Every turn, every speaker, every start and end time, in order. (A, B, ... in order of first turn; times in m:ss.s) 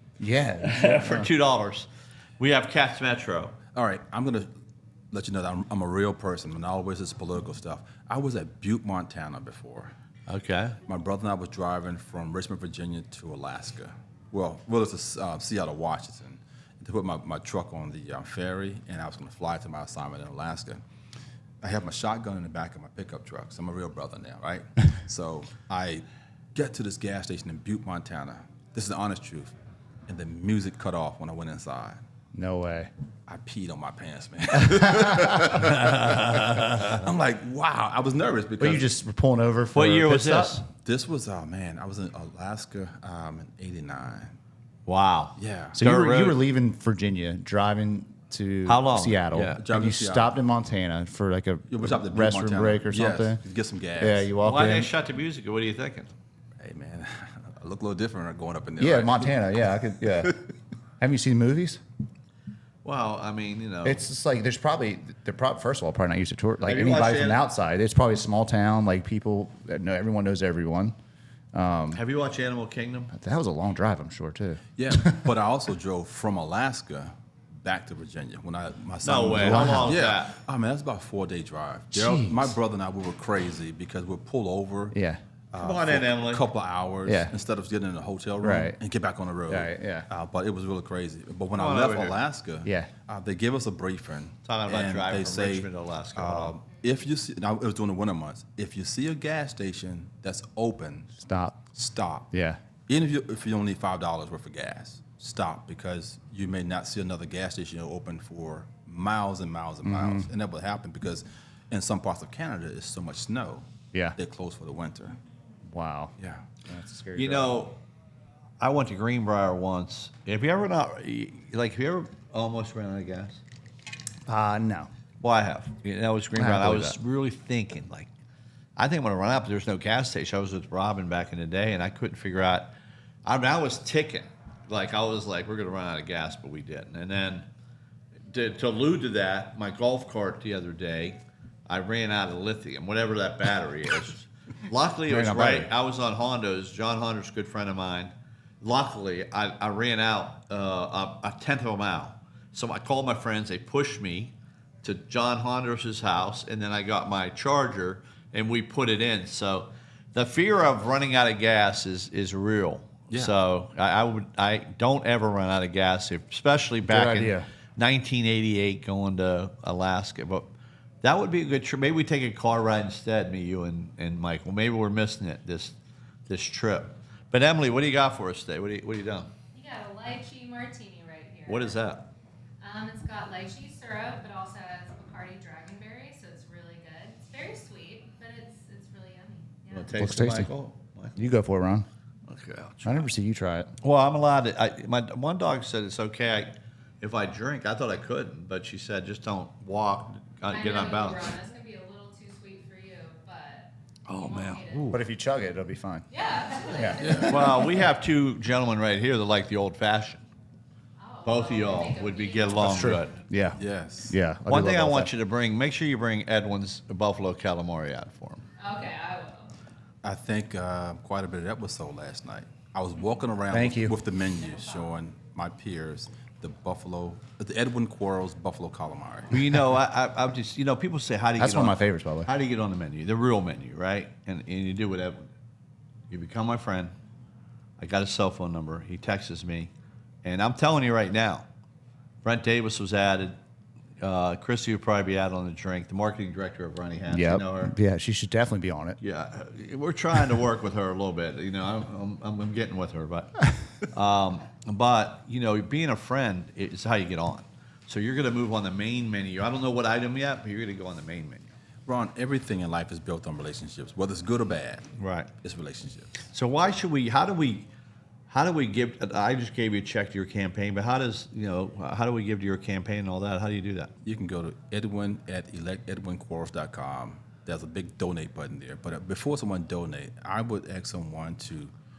0:00.2-0:01.3 A
0:00.6-0:01.9 B
0:02.4-0:03.6 B
0:03.8-0:04.5 C
0:05.1-0:09.9 C
0:10.3-0:10.8 B
0:10.9-0:20.8 C
0:21.6-0:26.0 C
0:26.6-0:29.5 C
0:30.1-0:32.0 C
0:32.3-0:32.9 A
0:33.3-0:38.9 C
0:35.3-0:35.6 A
0:35.7-0:36.9 B
0:38.6-0:40.6 A
0:39.7-0:40.7 B
0:40.8-0:44.4 C
0:44.9-0:46.4 B
0:45.4-0:45.8 C
0:45.7-0:53.4 A
0:48.7-0:49.6 B
0:49.4-0:50.4 C
0:51.7-0:54.3 C
0:54.0-0:54.9 A
0:54.4-0:56.1 B
0:56.6-0:59.6 C
0:58.8-1:00.4 A
1:01.0-1:01.8 A
1:02.8-1:04.0 B
1:03.8-1:11.0 A
1:06.6-1:07.4 B
1:11.5-1:12.0 A
1:11.9-1:13.1 B
1:13.1-1:15.3 A
1:14.8-1:25.0 C
1:19.0-1:20.4 B
1:19.3-1:20.0 A
1:21.9-1:22.5 A
1:24.9-1:25.2 A
1:25.5-1:41.1 C
1:25.6-1:26.4 B
1:27.0-1:27.3 A
1:28.4-1:28.8 A
1:29.5-1:30.1 A
1:31.6-1:32.2 B
1:32.6-1:32.9 A
1:34.4-1:36.6 B
1:41.2-1:41.8 A
1:41.8-1:42.3 C
1:42.3-1:42.6 A
1:42.9-1:55.2 C
1:49.8-1:50.3 A
1:55.7-1:57.6 A
1:56.2-1:56.5 C
1:57.2-1:57.8 B
1:58.6-2:03.4 B
2:04.3-2:04.9 A
2:05.2-2:08.1 B
2:06.4-2:07.0 A
2:08.8-2:12.7 B
2:13.2-2:17.5 B
2:18.3-2:55.8 B
2:25.1-2:25.7 A
2:43.1-2:43.4 C
2:46.9-2:47.5 A
2:56.3-2:59.3 B
2:59.5-3:01.9 D
3:01.5-3:02.1 B
3:02.6-3:10.0 D
3:09.7-3:11.3 B
3:09.9-3:10.5 A
3:11.2-3:11.9 A
3:12.3-3:13.1 B
3:12.8-3:13.7 A
3:13.8-3:21.3 B
3:20.5-3:25.0 D
3:24.1-3:25.0 B
3:24.8-3:26.1 A
3:26.1-3:27.8 D
3:26.7-3:27.3 A
3:27.0-3:27.4 C
3:27.2-3:30.2 B
3:31.0-3:33.6 D
3:31.2-3:33.1 B
3:32.6-3:35.1 A
3:33.5-3:34.2 C
3:34.5-3:38.5 B
3:38.6-3:39.5 D
3:40.0-3:49.7 C
3:43.5-3:44.0 A
3:49.3-3:55.3 B
3:51.4-3:52.3 A
3:56.1-3:56.9 B
3:57.8-3:59.7 B
4:00.2-4:01.5 B
4:02.2-4:03.4 B
4:04.0-4:07.8 B
4:07.1-4:09.0 A
4:09.0-4:21.5 B
4:21.9-4:24.9 C
4:25.0-4:25.3 B
4:25.4-4:26.1 C
4:26.3-4:27.7 B
4:28.3-4:33.9 B
4:34.0-4:41.7 C